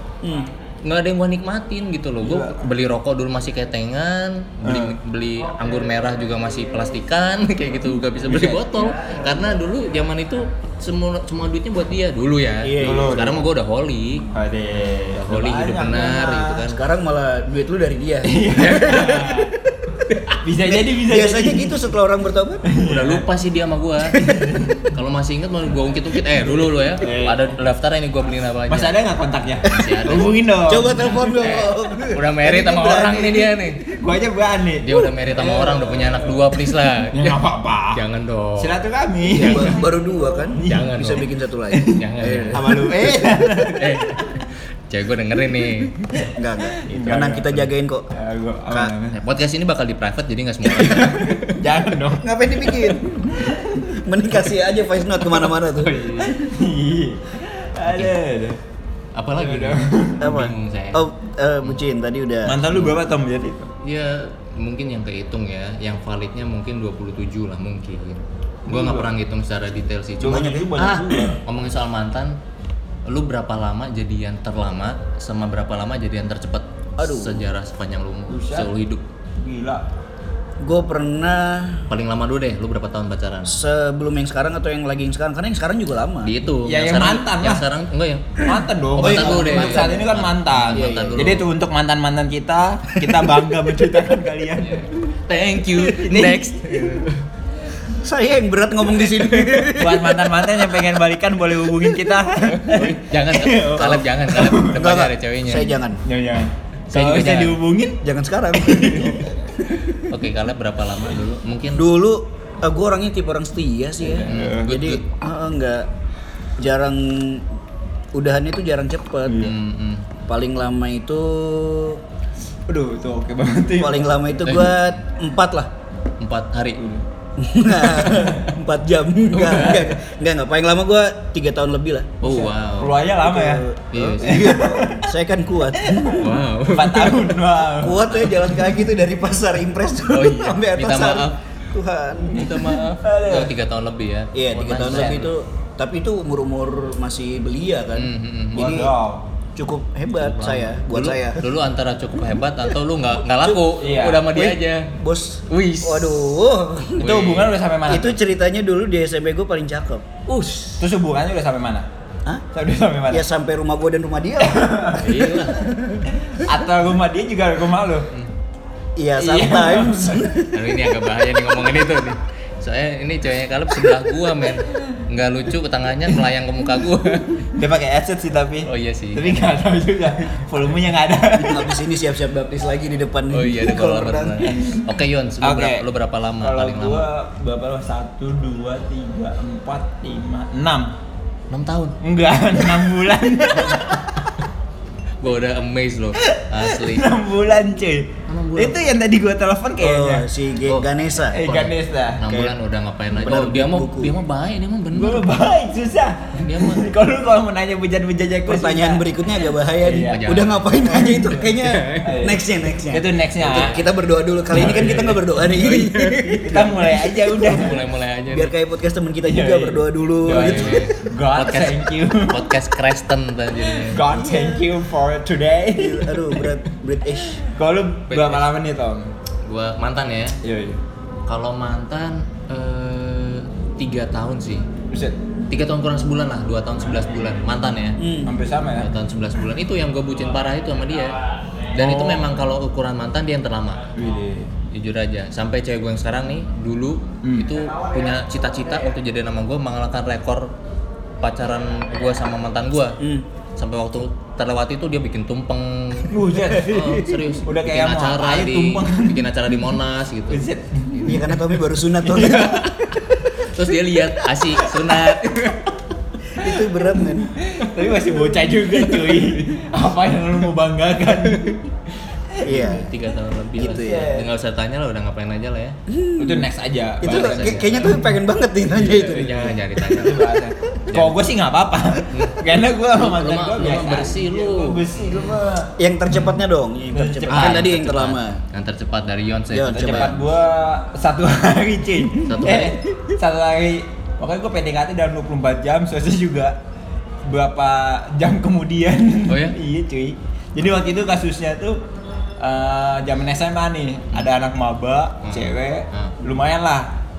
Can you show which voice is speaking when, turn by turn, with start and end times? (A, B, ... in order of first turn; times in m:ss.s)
0:00.2-0:00.5 A
0:00.8-0:14.3 B
0:02.2-0:02.6 C
0:04.6-0:05.0 C
0:08.2-0:08.7 C
0:12.6-0:13.3 A
0:12.8-0:13.4 C
0:14.3-0:16.6 C
0:15.1-0:16.8 B
0:16.7-0:18.8 A
0:18.2-0:19.5 C
0:18.6-0:19.5 B
0:20.1-0:20.4 B
0:20.4-0:21.9 C
0:20.7-0:22.6 A
0:22.6-0:23.2 C
0:22.8-0:24.2 B
0:24.1-0:24.9 C
0:24.9-0:29.0 B
0:26.3-0:27.6 C
0:28.7-0:31.2 C
0:29.6-0:33.8 B
0:30.6-0:33.6 A
0:33.9-0:36.6 C
0:34.8-0:37.4 B
0:37.1-0:38.0 C
0:37.9-0:38.7 B
0:38.6-0:39.8 C
0:39.3-0:43.7 A
0:39.4-0:39.7 B
0:40.6-0:41.2 C
0:40.6-0:41.2 B
0:41.7-0:42.0 C
0:42.0-0:42.6 B
0:42.5-0:44.1 C
0:43.6-0:45.9 B
0:46.3-0:48.0 A
0:46.8-0:49.2 C
0:49.1-0:51.5 B
0:50.6-0:53.9 C
0:52.2-0:56.2 A
0:55.2-0:58.6 C
0:57.9-0:58.1 B
0:59.2-1:01.0 B
0:59.4-1:00.3 C
1:00.2-1:02.6 A
1:02.4-1:03.7 C
1:03.8-1:12.4 B
1:08.7-1:09.1 C
1:10.2-1:11.4 C
1:10.2-1:11.3 A
1:13.0-1:19.0 B
1:17.0-1:17.4 A
1:18.3-1:18.7 C
1:19.4-1:19.8 C
1:20.6-1:21.9 A
1:21.9-1:23.5 B
1:23.5-1:26.3 A
1:26.2-1:31.5 B
1:26.6-1:27.6 C
1:28.4-1:34.9 C
1:28.4-1:30.0 A
1:30.7-1:31.4 A
1:34.6-1:37.2 B
1:35.7-1:36.6 C
1:37.9-1:40.5 A
1:39.5-1:44.9 C
1:42.6-1:45.7 B
1:44.6-1:46.0 A
1:46.0-1:48.0 C
1:46.9-1:47.6 B
1:48.0-1:49.9 A
1:48.5-1:49.2 C
1:50.1-1:51.9 B
1:51.8-1:55.9 A
1:54.0-1:54.7 C
1:54.2-1:55.0 B
1:56.6-1:57.4 A
1:58.1-1:59.5 A
1:59.3-1:59.6 C
1:59.4-2:00.1 B
2:00.3-2:02.0 A
2:02.7-2:04.1 C
2:03.8-2:05.7 A
2:04.4-2:05.0 B
2:06.2-2:06.8 B
2:07.4-2:12.3 A
2:09.3-2:10.0 C
2:12.2-2:13.0 B
2:12.3-2:15.1 C
2:13.2-2:16.3 A
2:13.9-2:14.6 B
2:15.8-2:18.6 C
2:16.2-2:17.3 B
2:17.8-2:22.5 A
2:20.1-2:21.4 B
2:22.3-2:25.3 B
2:22.3-2:23.5 C
2:24.3-2:28.9 A
2:27.9-2:28.7 B
2:28.5-2:29.2 C
2:29.6-2:31.4 A
2:30.1-2:34.9 B
2:33.4-2:33.7 A
2:33.8-2:34.3 C
2:34.3-2:37.2 A
2:35.5-2:36.3 B
2:37.0-2:37.5 B
2:37.0-2:38.2 C
2:37.9-2:40.8 A
2:40.8-2:41.9 C
2:42.5-2:43.2 C
2:43.1-2:44.9 A
2:44.4-2:45.4 C
2:45.0-2:45.6 B
2:45.5-2:46.1 A
2:46.1-2:48.1 C
2:49.0-2:50.6 A
2:49.2-2:50.3 C
2:50.5-2:57.5 B
2:57.5-3:01.7 C
2:58.7-2:59.5 B
3:01.4-3:04.5 A
3:03.3-3:07.1 B
3:04.4-3:04.9 C
3:05.4-3:05.8 C
3:06.4-3:10.9 C
3:11.5-3:12.0 B
3:12.0-3:14.0 C
3:13.6-3:13.9 B
3:15.2-3:17.1 B
3:16.2-3:20.3 C
3:18.3-3:18.8 B
3:19.8-3:21.4 A
3:21.3-3:22.5 C
3:21.4-3:25.3 B
3:23.1-3:24.1 A
3:24.9-3:29.2 C
3:26.4-3:26.9 B
3:28.4-3:37.7 A
3:29.8-3:33.9 C
3:30.0-3:30.7 B
3:31.6-3:32.1 B
3:33.4-3:33.8 B
3:34.5-3:37.8 C
3:35.5-3:36.5 B
3:37.4-3:38.5 B
3:38.3-3:40.9 A
3:39.2-3:42.5 C
3:40.3-3:44.0 B
3:43.7-3:46.5 C
3:44.1-3:44.7 A
3:45.8-3:47.4 A
3:47.4-3:49.1 C
3:48.1-3:48.5 B
3:49.4-3:50.4 B
3:50.4-3:50.8 C
3:51.3-3:54.6 B
3:54.9-3:55.2 C
3:55.5-3:58.0 B
3:58.0-3:58.4 A
3:58.2-3:58.9 C
3:58.8-4:01.2 B
4:01.7-4:03.9 B
4:01.7-4:02.3 C
4:03.9-4:04.5 C
4:04.7-4:10.5 B
4:07.2-4:07.6 C
4:11.2-4:13.0 B
4:13.0-4:13.3 A
4:13.6-4:21.2 B
4:16.1-4:19.3 C
4:16.7-4:17.3 A
4:20.3-4:22.7 C
4:21.0-4:22.7 A
4:23.4-4:25.7 B
4:26.4-4:27.3 A
4:27.4-4:31.7 C
4:32.4-4:32.9 A
4:32.4-4:35.8 B
4:33.6-4:34.1 A
4:33.7-4:34.3 C
4:35.9-4:36.5 A
4:36.2-4:38.0 C
4:37.0-4:39.5 A
4:37.0-4:38.0 B
4:38.7-4:40.2 B
4:38.8-4:45.7 C
4:40.9-4:41.1 B
4:42.1-4:42.4 B
4:42.9-4:45.4 B
4:45.8-4:48.4 A
4:46.9-4:47.6 C
4:47.3-4:50.1 B
4:49.5-4:50.2 A
4:49.7-4:56.6 C
4:52.2-4:52.8 B
4:57.2-5:01.8 C
4:59.3-4:59.6 B
5:02.4-5:06.9 C
5:05.2-5:06.1 B